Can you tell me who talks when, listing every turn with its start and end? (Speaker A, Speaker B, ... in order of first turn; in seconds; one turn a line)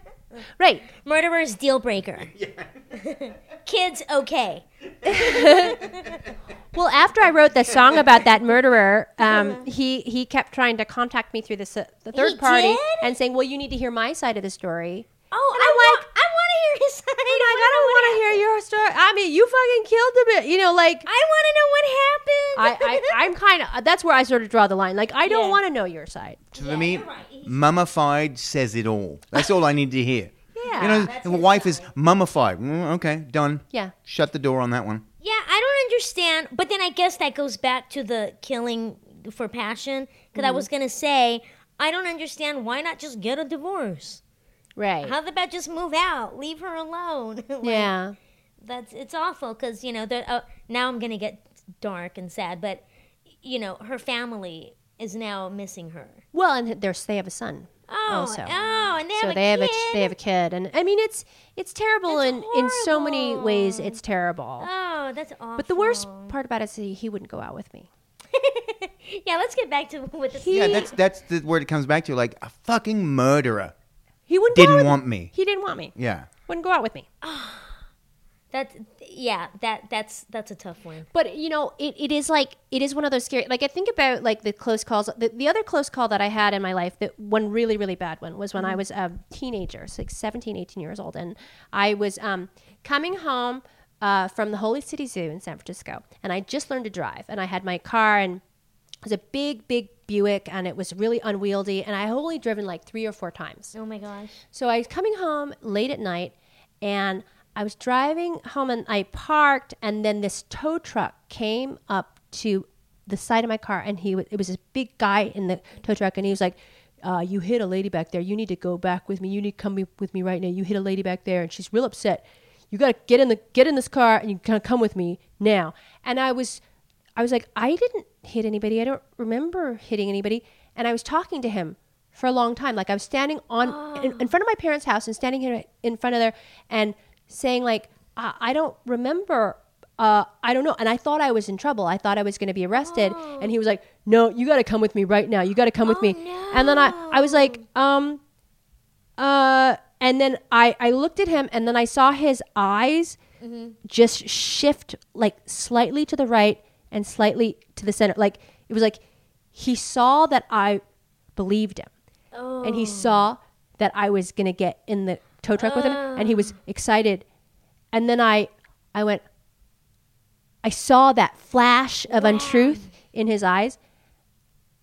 Speaker A: 0.6-0.9
Speaker B: 0.9-2.3
Speaker C: 2.4-2.7
Speaker B: 2.9-6.2
Speaker A: 5.0-5.8
Speaker A: 6.7-16.1
Speaker B: 9.2-9.7
Speaker B: 12.1-13.1
Speaker B: 15.3-18.4
Speaker A: 17.3-21.1
Speaker B: 21.1-23.3
Speaker A: 22.6-26.4
Speaker B: 25.2-25.6
Speaker C: 26.5-35.0
Speaker B: 26.5-27.6
Speaker A: 30.6-31.1
Speaker B: 30.6-31.9
Speaker B: 35.2-44.2
Speaker A: 40.3-40.7
Speaker A: 44.8-45.1
Speaker B: 45.0-47.9
Speaker A: 47.6-48.1
Speaker B: 48.6-52.8
Speaker B: 53.4-56.2
Speaker A: 56.3-58.6
Speaker B: 57.9-60.1
Speaker A: 59.1-64.7
Speaker B: 62.1-64.0
Speaker B: 64.6-66.3
Speaker A: 65.6-67.9
Speaker B: 68.3-70.9
Speaker A: 70.3-70.9
Speaker C: 70.5-73.7
Speaker A: 74.3-75.9
Speaker C: 74.5-75.3
Speaker C: 75.9-76.3
Speaker A: 76.5-77.1
Speaker B: 77.2-77.8
Speaker B: 78.5-81.1
Speaker A: 81.1-98.4
Speaker B: 88.5-88.8
Speaker A: 99.0-103.7
Speaker B: 103.7-104.4
Speaker A: 104.5-126.6
Speaker A: 127.2-148.2
Speaker B: 133.6-134.3
Speaker B: 142.7-143.5
Speaker B: 145.8-147.6
Speaker A: 149.2-153.2
Speaker B: 153.4-153.8
Speaker A: 153.8-159.0
Speaker A: 159.5-160.8
Speaker A: 161.3-161.9
Speaker B: 162.3-163.2
Speaker A: 162.6-167.2
Speaker B: 165.6-166.5
Speaker A: 167.9-169.2
Speaker A: 170.6-173.8
Speaker B: 172.1-172.9